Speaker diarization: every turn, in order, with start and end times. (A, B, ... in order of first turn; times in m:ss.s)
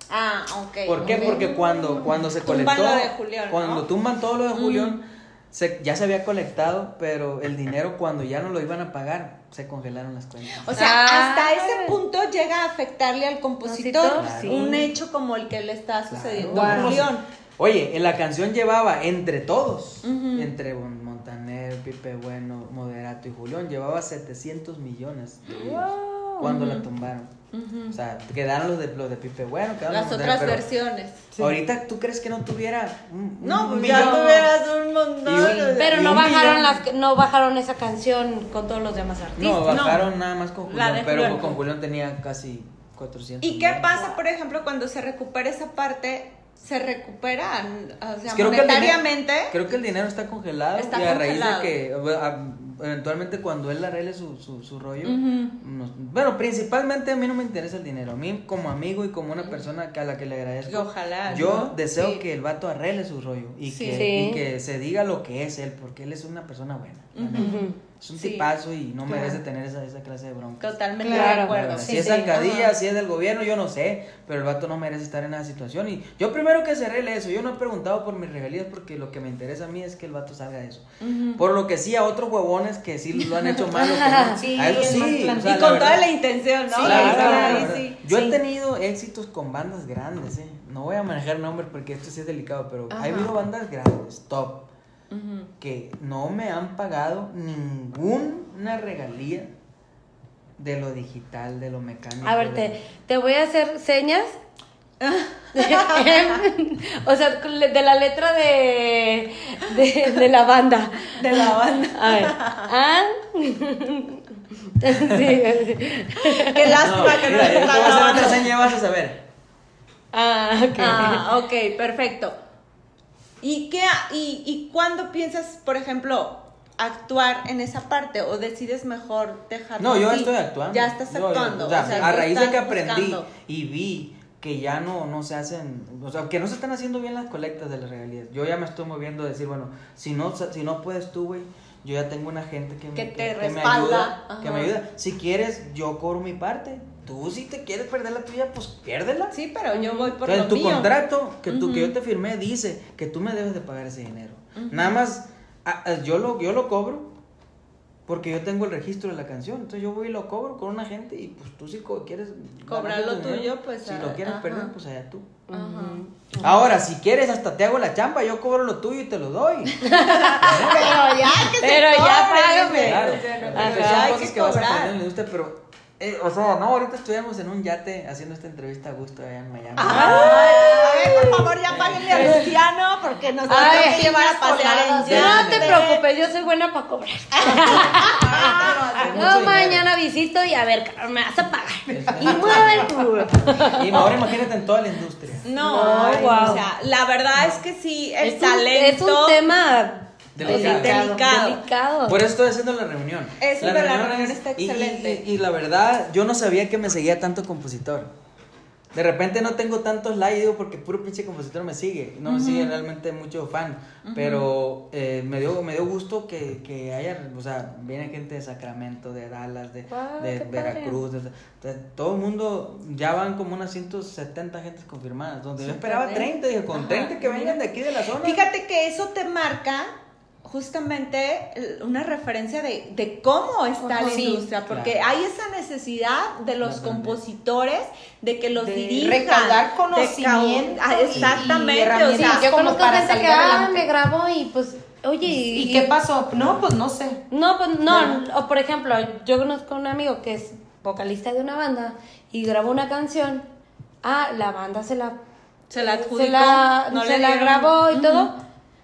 0:00.1-0:03.8 A
0:00.8-0:10.7 B
0:01.0-0:02.1 C
0:04.5-0:05.0 A
0:10.6-0:17.2 A
0:10.7-0:12.0 C
0:13.6-0:14.8 C
0:14.1-0:14.8 B
0:16.1-0:27.3 B
0:16.5-0:17.0 D
0:16.5-0:16.9 C
0:20.0-0:20.5 A
0:25.5-0:26.9 A
0:27.5-0:28.0 A
0:27.9-0:30.6 B
0:29.9-0:31.3 A
0:31.4-0:34.6 B
0:33.4-0:36.2 A
0:33.8-0:34.4 C
0:35.2-0:36.8 B
0:35.4-0:39.8 C
0:39.4-0:43.9 B
0:39.6-0:40.1 A
0:40.6-0:41.6 A
0:43.4-0:49.5 A
0:48.2-1:10.8 B
0:50.8-0:51.7 A
0:55.0-0:55.5 A
1:00.6-1:02.2 A
1:01.3-1:01.6 D
1:03.7-1:04.1 A
1:03.9-1:04.4 C
1:07.1-1:07.6 A
1:07.4-1:07.8 C
1:08.2-1:08.5 A
1:09.1-1:09.4 D
1:10.6-1:12.7 A
1:11.0-1:12.1 D
1:11.1-1:12.3 C
1:11.3-1:26.1 B
1:21.0-1:21.4 A
1:23.6-1:24.4 C
1:24.3-1:25.8 D
1:24.9-1:28.0 A
1:26.7-1:34.7 B
1:26.7-1:28.4 D
1:26.8-1:27.6 C
1:32.9-1:33.3 A
1:35.1-1:35.5 A
1:35.6-1:39.5 B
1:40.6-1:42.8 B
1:42.2-1:44.4 C
1:45.0-1:46.4 A
1:45.5-1:58.2 C
1:51.1-1:52.7 A
1:55.0-1:55.4 B
1:56.2-1:58.5 A
1:56.8-1:59.2 B
2:00.1-2:01.3 C
2:00.8-2:02.4 A
2:03.4-2:13.3 A
2:09.8-2:29.4 B
2:22.9-2:24.7 A
2:29.3-2:31.9 A
2:29.7-2:30.1 C
2:30.2-2:37.1 B
2:34.6-2:35.0 A
2:38.1-2:45.4 B
2:42.6-2:44.7 A
2:45.5-2:46.7 C
2:45.5-2:46.0 A
2:46.4-2:49.8 B
2:49.8-2:54.2 C
2:49.8-2:55.0 A
2:50.4-2:51.0 B
2:52.8-3:00.4 B
2:59.8-3:06.0 A
2:59.9-3:01.4 C
2:59.9-3:01.4 D
3:01.7-3:02.3 B
3:02.1-3:02.5 C
3:03.5-3:04.1 C
3:03.5-3:05.4 D
3:05.0-3:08.6 C
3:05.0-3:05.8 B
3:07.3-3:09.2 A
3:07.7-3:08.0 B
3:07.8-3:09.4 D
3:09.0-3:09.9 B
3:09.1-3:14.1 C
3:11.9-3:12.9 B
3:11.9-3:13.4 D
3:13.7-3:15.5 B
3:15.4-3:19.5 A
3:15.6-3:16.6 D
3:15.6-3:16.6 C
3:18.2-3:22.2 C
3:20.3-3:21.0 B
3:20.4-3:21.6 A
3:20.4-3:21.2 D
3:22.1-3:28.1 B
3:23.4-3:25.2 A
3:28.9-3:48.4 B
3:32.3-3:32.7 A
3:34.0-3:34.6 A
3:39.9-3:41.0 C
3:45.6-3:47.6 A
3:48.2-3:49.9 A
3:50.4-4:02.5 A
3:53.8-3:54.3 C
3:54.0-3:54.5 D
3:54.7-3:55.0 B
3:56.6-3:57.2 B
3:58.6-4:03.9 D
4:01.1-4:01.4 B
4:02.1-4:05.9 C
4:05.3-4:07.2 D
4:07.3-4:13.4 C
4:14.0-4:15.2 C
4:15.7-4:18.3 A
4:15.7-4:18.4 C